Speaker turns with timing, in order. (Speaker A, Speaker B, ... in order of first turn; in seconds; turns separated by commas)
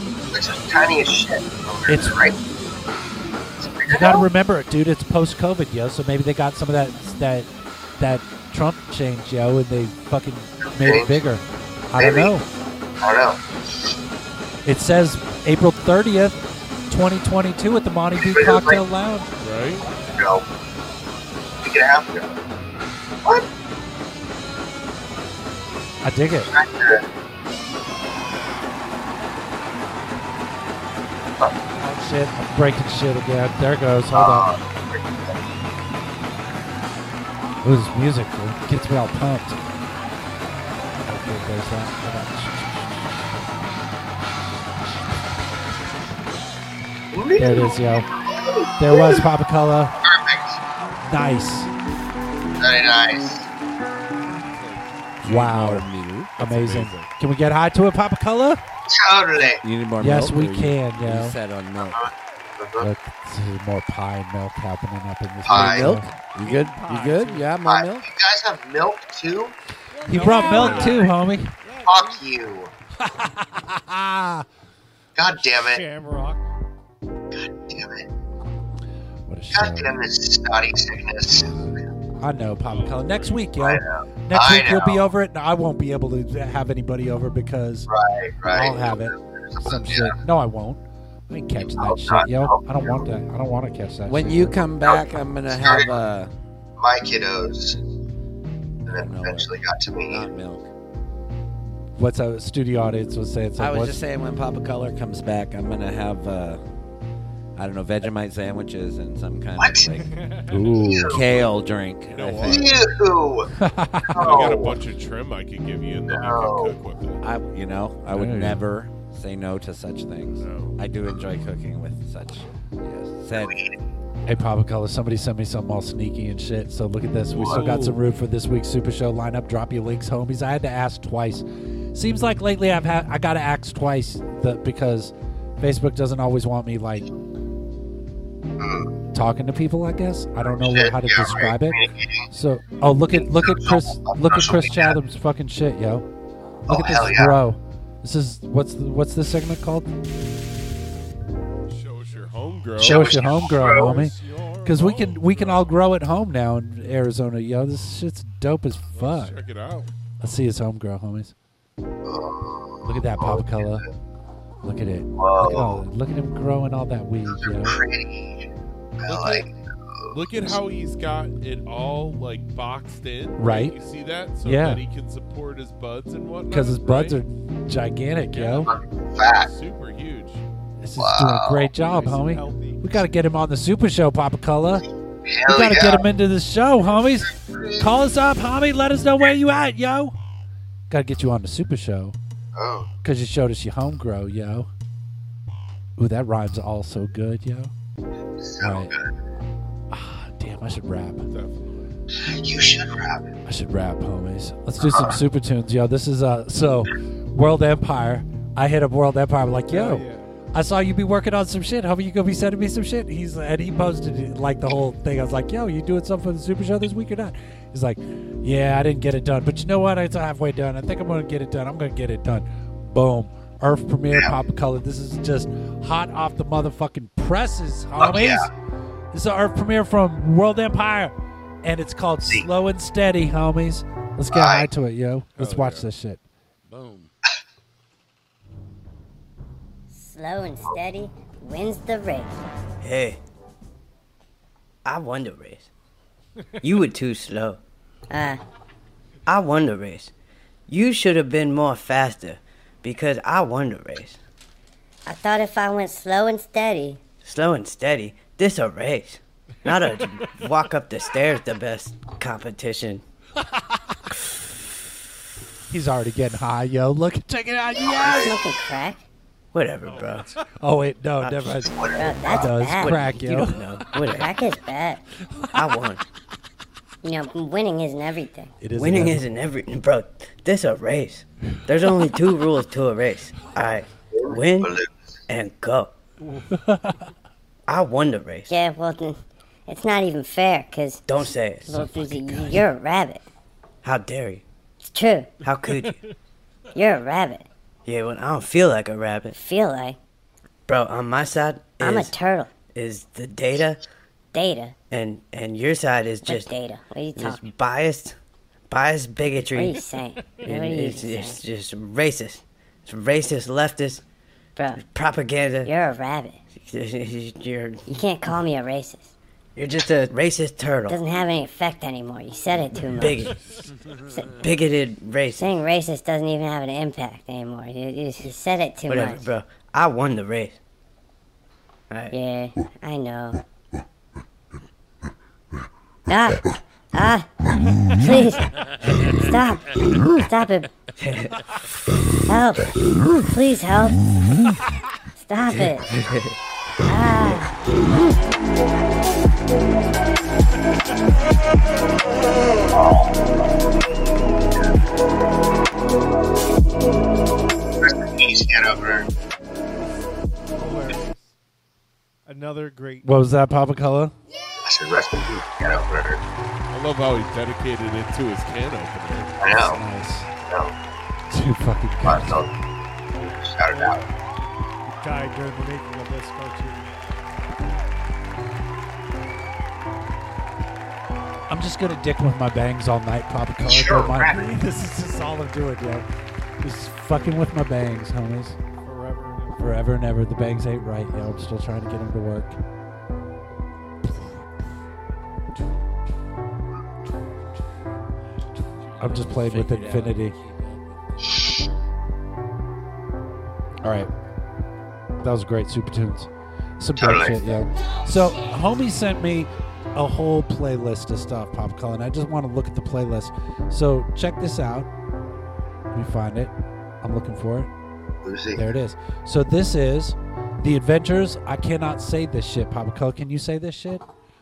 Speaker A: 0.3-2.4, Speaker B: 1.9-2.3, Speaker A: 3.6-4.3, Speaker B: 3.9-12.5, Speaker A: 10.7-11.2, Speaker A: 12.0-12.3, Speaker A: 13.0-13.4, Speaker B: 14.7-19.3, Speaker A: 18.2-18.8, Speaker C: 19.4-19.9, Speaker A: 20.1-20.4, Speaker A: 21.6-22.3, Speaker B: 26.0-26.5, Speaker A: 26.4-27.1, Speaker B: 31.8-34.5, Speaker A: 34.1-35.4, Speaker B: 37.6-39.6, Speaker B: 41.0-42.9, Speaker A: 47.1-49.3, Speaker B: 47.4-48.1, Speaker B: 48.8-50.0, Speaker A: 50.0-50.6, Speaker B: 51.0-51.7, Speaker A: 52.6-53.5, Speaker C: 54.5-55.3, Speaker D: 55.2-56.4, Speaker B: 55.2-55.9, Speaker B: 56.4-58.6, Speaker C: 56.4-57.1, Speaker A: 58.9-59.6, Speaker D: 59.4-62.0, Speaker B: 60.0-61.4, Speaker A: 61.9-62.9, Speaker B: 62.8-66.1, Speaker A: 65.5-65.9, Speaker D: 65.5-68.1, Speaker E: 66.4-67.5, Speaker A: 67.6-69.6, Speaker E: 70.0-71.1, Speaker B: 70.1-71.5, Speaker D: 70.1-70.4, Speaker C: 70.4-71.0, Speaker A: 71.9-72.7, Speaker B: 73.0-74.5, Speaker A: 75.2-75.8, Speaker E: 75.5-76.4, Speaker A: 77.7-78.1, Speaker B: 79.3-79.9, Speaker A: 79.5-81.5, Speaker B: 81.5-87.9, Speaker C: 82.6-83.5, Speaker A: 83.6-85.1, Speaker A: 87.9-90.2, Speaker B: 88.5-94.6, Speaker A: 91.6-93.1, Speaker D: 94.1-96.3, Speaker A: 94.8-96.0, Speaker A: 96.8-97.8, Speaker A: 98.9-100.3, Speaker D: 98.9-99.5, Speaker D: 100.1-100.7, Speaker B: 102.0-104.0, Speaker D: 103.6-106.6, Speaker D: 107.6-110.2, Speaker A: 109.6-109.9, Speaker B: 110.5-111.2, Speaker A: 110.8-111.3, Speaker D: 111.1-112.7, Speaker C: 112.1-112.7, Speaker A: 112.4-113.5, Speaker B: 113.6-114.5, Speaker A: 114.2-114.8, Speaker C: 114.2-117.2, Speaker A: 116.1-116.8, Speaker D: 117.2-123.6, Speaker B: 118.1-118.6, Speaker C: 120.4-120.8, Speaker A: 123.4-123.8, Speaker B: 124.3-137.1, Speaker C: 127.4-128.0, Speaker A: 138.6-138.9, Speaker B: 139.1-146.1, Speaker A: 140.4-142.3, Speaker A: 143.1-145.0, Speaker A: 146.7-147.4, Speaker B: 146.7-149.9, Speaker C: 151.7-153.4, Speaker A: 152.8-153.9, Speaker B: 152.8-159.4, Speaker E: 153.7-154.9, Speaker C: 154.7-155.8, Speaker C: 158.9-159.9, Speaker B: 160.2-161.3, Speaker A: 162.0-163.7, Speaker B: 162.8-163.9, Speaker B: 164.7-167.8, Speaker A: 165.2-165.8, Speaker A: 167.3-168.5, Speaker A: 169.0-170.2, Speaker C: 169.1-169.4, Speaker C: 170.1-177.2, Speaker B: 173.4-173.8, Speaker B: 174.4-174.8, Speaker B: 176.5-178.7, Speaker C: 178.3-178.7, Speaker A: 178.6-179.5, Speaker C: 179.4-180.4, Speaker B: 180.8-184.8, Speaker A: 181.0-181.7, Speaker E: 181.8-182.8, Speaker A: 185.2-186.1, Speaker B: 185.5-190.2, Speaker A: 186.8-187.9, Speaker B: 190.9-192.2, Speaker A: 192.6-192.9, Speaker B: 193.0-194.7, Speaker B: 196.0-197.7, Speaker A: 198.4-199.1, Speaker B: 198.6-198.9, Speaker B: 199.9-201.3, Speaker C: 201.3-201.9, Speaker A: 202.2-203.3, Speaker B: 203.5-228.5, Speaker A: 204.8-205.2, Speaker E: 209.7-210.2, Speaker A: 228.0-228.5, Speaker B: 229.1-231.1, Speaker B: 231.6-236.2, Speaker A: 234.3-234.7, Speaker C: 235.4-235.9, Speaker D: 236.7-237.1, Speaker F: 239.9-242.5, Speaker G: 242.8-243.2, Speaker G: 244.8-245.7, Speaker G: 246.6-247.6, Speaker F: 248.1-248.4, Speaker G: 249.3-250.1, Speaker G: 250.7-254.2, Speaker F: 255.1-257.0, Speaker G: 257.2-263.0, Speaker B: 265.7-268.4, Speaker A: 267.8-268.4, Speaker F: 268.1-269.0, Speaker G: 269.5-270.3, Speaker B: 270.6-271.7, Speaker G: 271.2-271.6, Speaker A: 271.6-272.4, Speaker F: 272.0-273.0, Speaker B: 272.3-273.5, Speaker G: 272.4-274.3, Speaker F: 274.0-275.0, Speaker G: 275.5-276.0, Speaker F: 277.0-278.6, Speaker B: 278.6-279.2, Speaker G: 278.7-284.8, Speaker A: 284.1-285.1, Speaker G: 285.3-285.9, Speaker E: 286.2-286.5, Speaker B: 286.7-287.0, Speaker G: 287.7-288.5, Speaker F: 288.5-293.2, Speaker G: 291.1-292.6, Speaker G: 293.8-294.4, Speaker F: 294.9-295.4, Speaker G: 295.4-296.0, Speaker F: 296.7-297.5, Speaker G: 297.9-299.4, Speaker F: 299.3-300.0, Speaker G: 300.7-303.8, Speaker F: 301.8-302.5, Speaker F: 304.3-304.8, Speaker G: 304.9-306.5, Speaker F: 306.3-307.4, Speaker G: 307.1-308.2, Speaker G: 308.7-309.8, Speaker F: 309.5-311.4, Speaker G: 310.4-314.0, Speaker F: 314.6-314.8, Speaker G: 314.8-315.7, Speaker F: 315.6-316.4, Speaker G: 316.6-317.9, Speaker F: 317.9-319.1, Speaker G: 319.6-321.0, Speaker F: 320.9-323.3, Speaker G: 323.0-323.4, Speaker F: 324.1-324.4, Speaker G: 324.4-325.6, Speaker F: 325.4-329.3, Speaker G: 328.9-330.6, Speaker G: 331.9-332.2, Speaker F: 332.1-333.4, Speaker F: 336.1-337.3, Speaker F: 337.9-340.7, Speaker G: 341.0-341.4, Speaker F: 342.3-344.0, Speaker F: 345.2-345.9, Speaker G: 345.5-346.4, Speaker F: 346.8-347.5, Speaker A: 352.7-353.2, Speaker A: 357.8-359.1, Speaker E: 360.6-361.3, Speaker E: 362.3-363.1, Speaker B: 363.0-364.1, Speaker A: 364.6-366.2, Speaker C: 366.7-369.4, Speaker A: 369.4-369.8, Speaker B: 369.5-370.3, Speaker A: 370.5-370.8, Speaker B: 371.3-372.5, Speaker A: 372.0-372.5, Speaker A: 373.1-374.0, Speaker E: 373.7-374.0, Speaker E: 374.9-377.1, Speaker B: 381.5-386.1, Speaker A: 383.6-384.6, Speaker B: 386.6-388.6, Speaker E: 388.8-389.8, Speaker B: 389.6-392.6, Speaker D: 398.8-401.7, Speaker B: 399.0-400.4, Speaker A: 401.3-401.6, Speaker B: 403.8-404.1, Speaker B: 405.2-414.9, Speaker A: 407.0-407.5, Speaker B: 415.9-417.7, Speaker A: 418.2-418.6, Speaker B: 418.5-424.0